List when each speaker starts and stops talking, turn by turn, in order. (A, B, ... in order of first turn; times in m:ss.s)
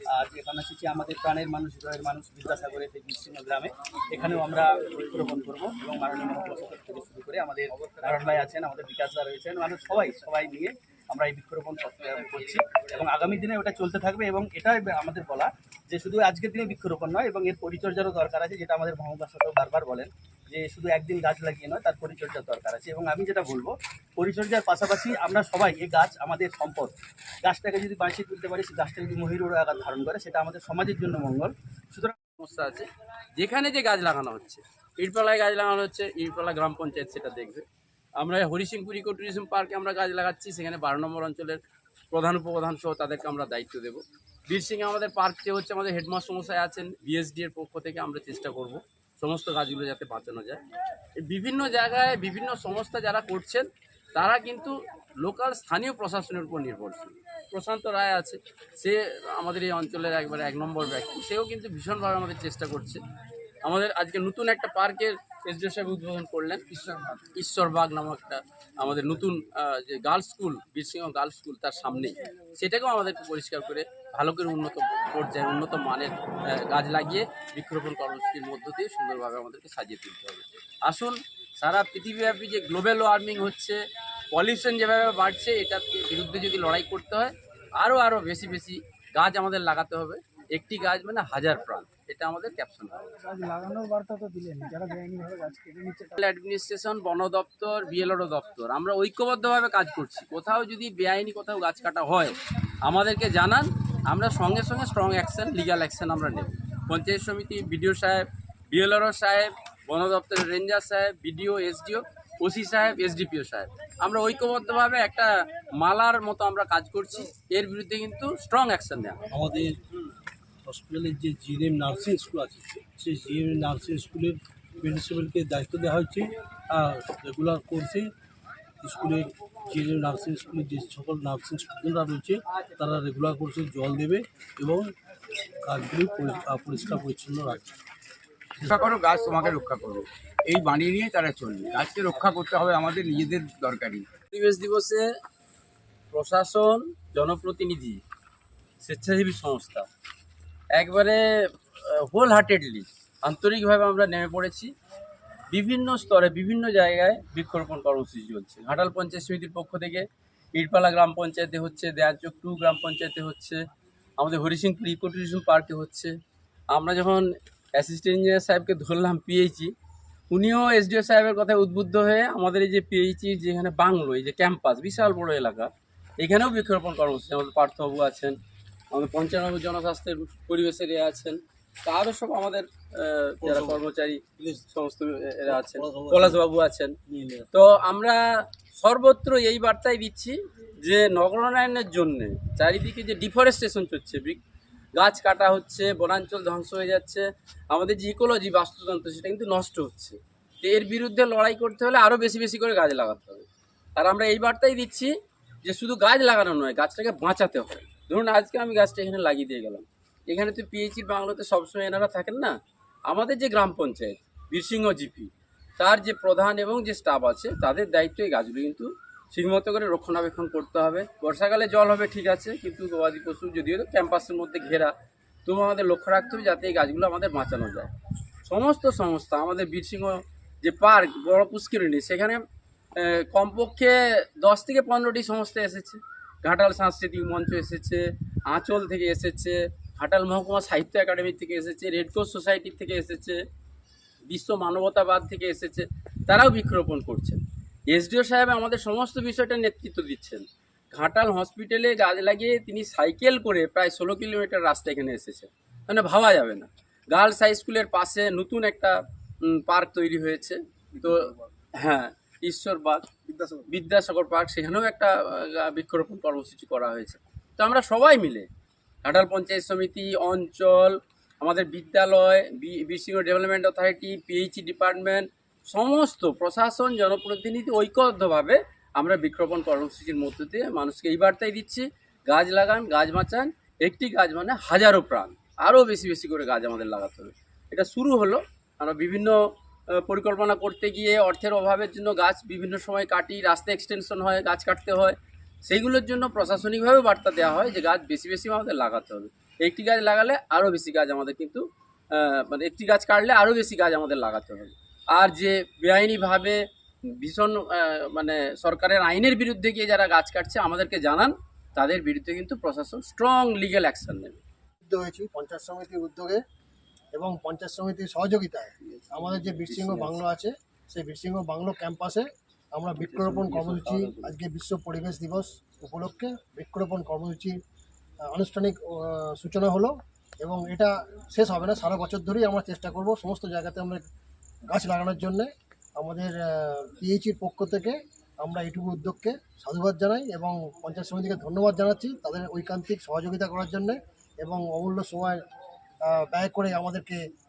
0:00.1-0:26.9 A
0:27.4-0:32.1 A
0:32.4-0:37.6 B
0:38.2-0:41.6 B
0:42.1-0:50.6 B
0:51.2-1:03.0 B
1:03.6-1:23.8 B
1:24.3-1:33.1 B
1:33.3-1:36.1 C
1:36.2-1:59.2 B
1:59.3-1:59.8 D
2:00.6-2:08.1 D
2:08.8-2:14.9 D
2:15.6-2:17.7 D
2:18.7-2:24.0 E
2:24.3-2:25.0 B
2:26.1-2:28.0 B
2:28.8-2:29.9 B
2:30.7-2:31.2 B
2:31.8-2:34.7 B
2:35.5-2:43.6 B
2:44.2-2:46.1 B
2:46.7-2:49.7 B
2:50.3-2:58.4 B
2:58.9-3:04.2 B
3:03.4-3:03.8 D
3:04.4-3:04.6 D
3:04.7-3:06.9 B
3:05.5-3:06.4 D
3:07.1-3:07.5 D
3:07.5-3:08.2 B
3:08.7-3:14.4 B
3:15.0-3:23.4 B
3:24.0-3:25.1 B
3:25.6-3:32.6 B
3:33.1-3:44.9 B
3:45.4-3:47.9 B
3:48.4-3:52.4 B
3:53.0-4:03.4 B
4:04.3-4:28.5 B
4:29.0-4:49.4 B
4:50.0-5:06.6 B
5:07.2-5:14.4 B
5:14.9-5:16.4 F
5:17.1-5:27.6 F
5:19.2-5:20.2 B
5:23.0-5:24.3 B
5:28.3-5:34.0 F
5:34.7-5:45.4 F
5:46.0-5:47.2 F